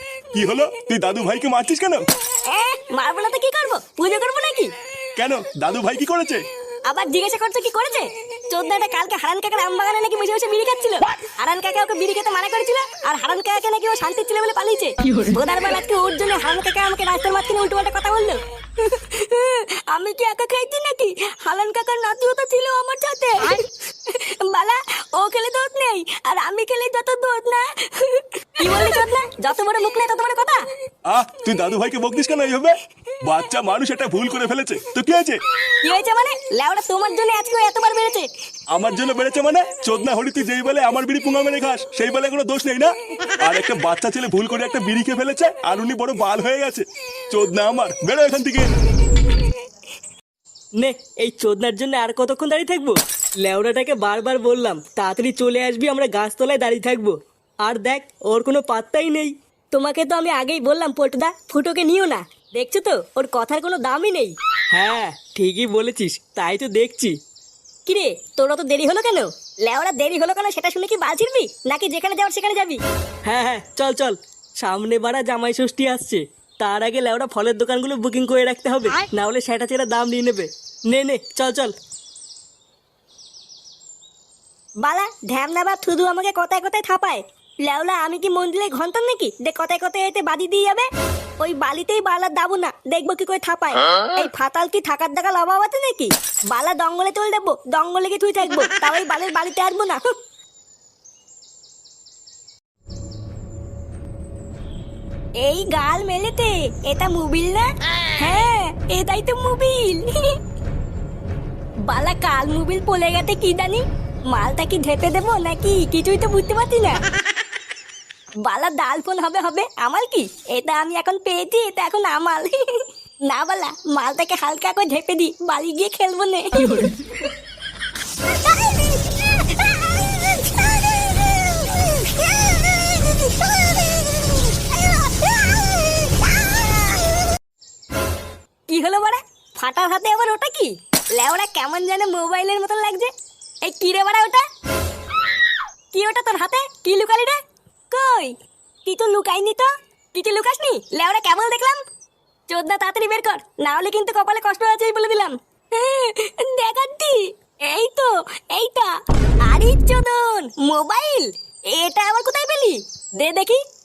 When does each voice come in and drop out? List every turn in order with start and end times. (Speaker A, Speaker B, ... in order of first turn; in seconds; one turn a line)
Speaker A: 0.3-2.0
Speaker B: 2.5-4.7
Speaker A: 5.2-6.5
Speaker B: 6.9-30.6
Speaker A: 31.1-35.4
Speaker B: 35.8-38.3
Speaker A: 38.7-48.7
Speaker C: 50.8-59.3
Speaker B: 59.7-64.3
Speaker C: 64.7-67.1
Speaker B: 67.9-72.8
Speaker C: 73.3-81.8
Speaker B: 84.8-100.0
Speaker B: 105.4-110.4
Speaker B: 111.8-117.0
Speaker B: 118.4-126.9
Speaker B: 129.3-130.8
Speaker B: 131.7-136.8
Speaker B: 138.7-143.1
Speaker B: 143.6-144.5
Speaker B: 145.9-151.8
Speaker B: 152.5-163.6